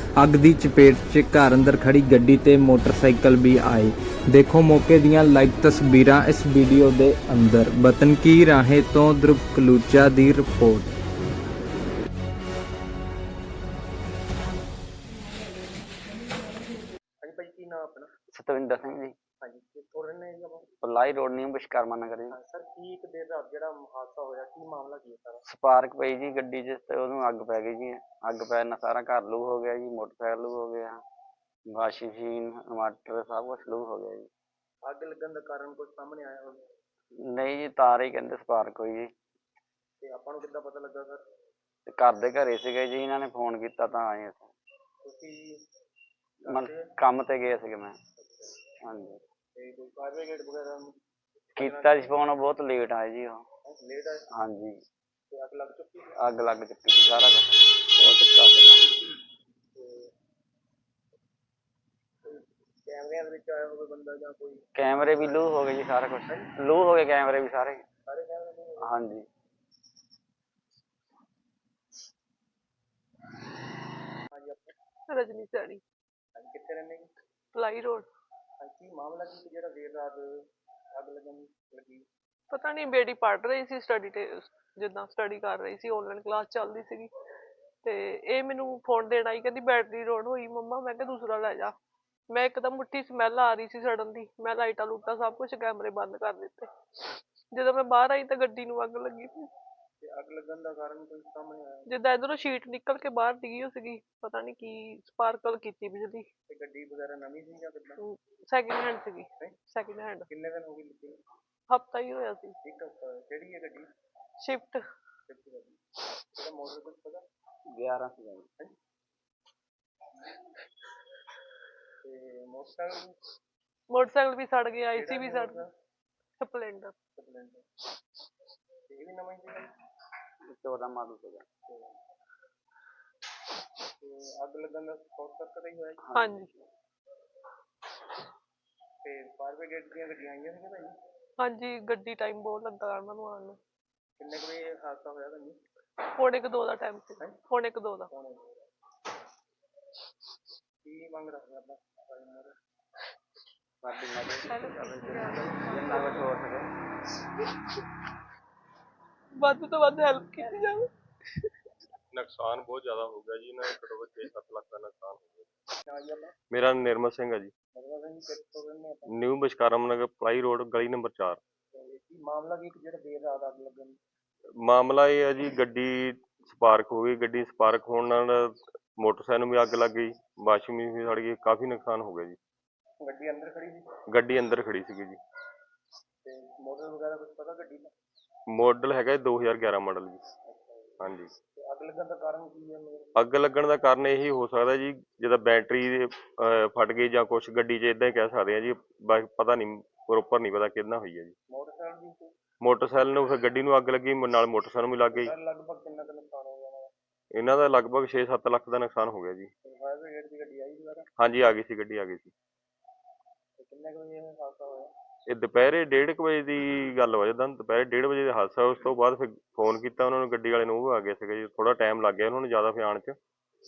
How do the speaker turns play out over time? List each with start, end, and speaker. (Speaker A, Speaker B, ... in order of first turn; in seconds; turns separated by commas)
Speaker A: 0.2-10.9, Speaker B: 17.2-18.1, Speaker C: 18.3-19.1, Speaker B: 19.4-20.7, Speaker C: 20.8-22.4, Speaker B: 22.3-25.4, Speaker C: 25.4-31.0, Speaker C: 31.7-34.3, Speaker B: 34.8-36.6, Speaker C: 37.2-39.1, Speaker B: 40.0-41.2, Speaker C: 41.9-44.5, Speaker B: 45.0-45.6, Speaker B: 46.4-46.8, Speaker C: 46.5-48.0, Speaker C: 48.8-49.2, Speaker B: 49.5-50.9, Speaker B: 51.5-52.1, Speaker C: 51.6-53.4, Speaker B: 53.6-54.3, Speaker C: 54.3-54.8, Speaker B: 55.3-56.1, Speaker C: 56.2-58.8, Speaker B: 59.8-60.1, Speaker B: 62.2-65.5, Speaker C: 64.8-67.8, Speaker B: 68.1-68.9, Speaker C: 68.8-69.2, Speaker B: 74.3-74.7, Speaker D: 75.1-75.8, Speaker B: 76.3-77.1, Speaker D: 77.5-78.1, Speaker B: 78.6-80.3, Speaker B: 80.9-82.0, Speaker D: 82.5-87.1, Speaker D: 87.8-91.7, Speaker D: 92.3-99.5, Speaker B: 100.0-101.9, Speaker D: 101.9-106.3, Speaker B: 106.5-108.0, Speaker D: 108.0-110.3, Speaker B: 110.3-111.2, Speaker D: 111.7-112.6, Speaker B: 112.6-113.9, Speaker D: 114.4-114.8, Speaker B: 115.3-115.8, Speaker B: 116.3-117.2, Speaker C: 117.7-118.5, Speaker B: 122.0-123.2, Speaker D: 123.9-125.6, Speaker B: 124.9-125.7, Speaker D: 126.4-126.9, Speaker B: 127.2-127.6, Speaker B: 128.9-129.7, Speaker C: 130.5-131.4, Speaker B: 131.7-132.0, Speaker B: 134.0-136.1, Speaker D: 136.1-136.5, Speaker B: 139.0-140.9, Speaker D: 141.4-143.6, Speaker B: 144.2-145.6, Speaker D: 146.0-148.1, Speaker B: 148.1-148.7, Speaker B: 150.8-152.5, Speaker C: 153.8-156.7, Speaker D: 154.5-156.2, Speaker B: 154.6-155.6, Speaker D: 159.4-160.9, Speaker E: 162.1-165.5, Speaker B: 165.8-166.3, Speaker E: 166.5-167.5, Speaker B: 167.7-169.2, Speaker E: 169.1-171.4, Speaker B: 171.7-174.0, Speaker E: 174.6-182.4, Speaker B: 183.0-183.9, Speaker E: 184.1-185.2, Speaker B: 186.2-187.9, Speaker E: 188.5-190.2, Speaker B: 190.4-190.9, Speaker E: 191.0-191.3, Speaker B: 191.6-193.2, Speaker E: 193.2-201.3, Speaker B: 201.5-202.3, Speaker E: 202.6-205.3, Speaker B: 205.1-206.9, Speaker E: 207.3-209.5, Speaker B: 209.7-211.1, Speaker E: 211.2-212.3, Speaker B: 213.6-214.9, Speaker E: 215.3-223.2